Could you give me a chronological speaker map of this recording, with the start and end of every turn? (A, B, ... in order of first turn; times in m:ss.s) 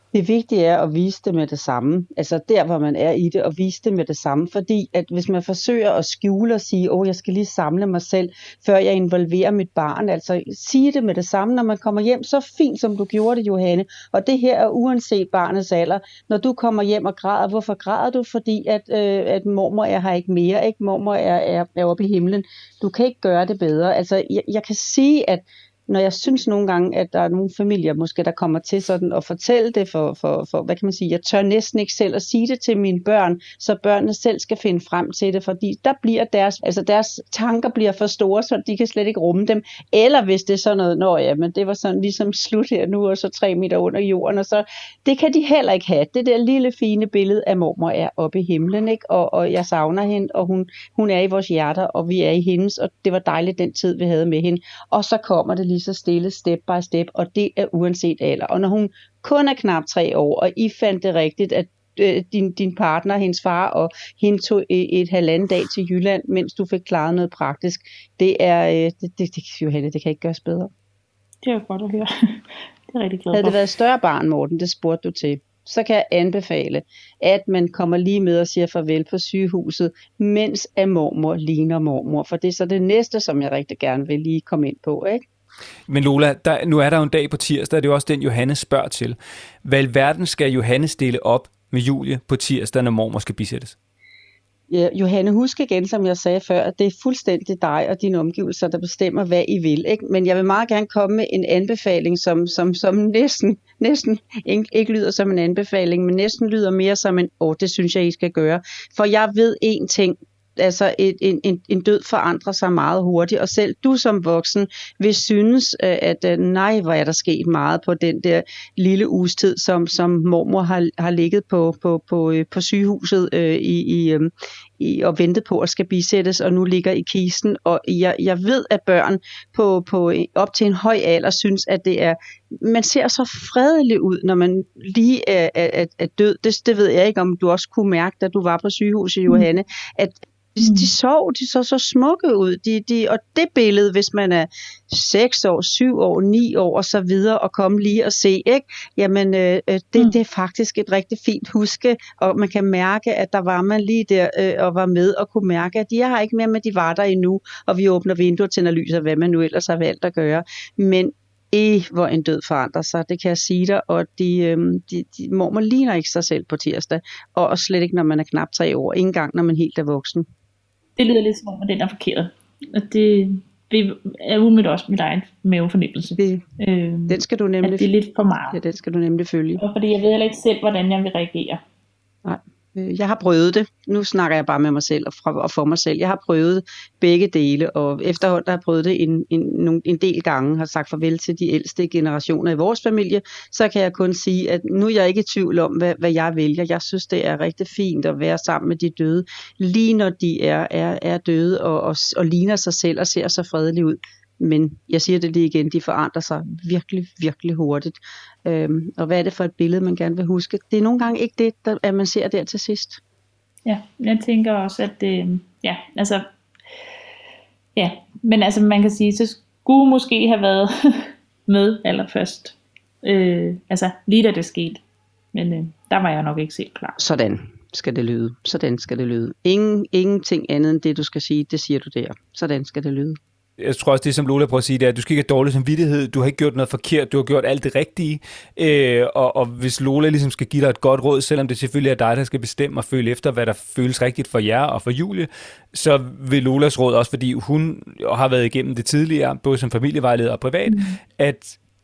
0:00.1-1:10.7 A
1:11.4-1:13.6 B
1:13.3-1:25.2 A
1:25.9-1:33.8 C
1:34.7-2:50.3 A
2:20.6-2:20.9 B
2:51.0-2:58.6 B
2:57.1-2:57.9 A
2:58.5-2:59.6 A
2:59.6-3:01.6 B
3:02.2-3:33.0 A
3:33.6-3:36.2 B
3:37.7-3:44.8 B
3:45.3-3:47.0 B
3:47.0-3:53.2 A
3:53.6-4:11.6 C
4:10.7-4:11.0 B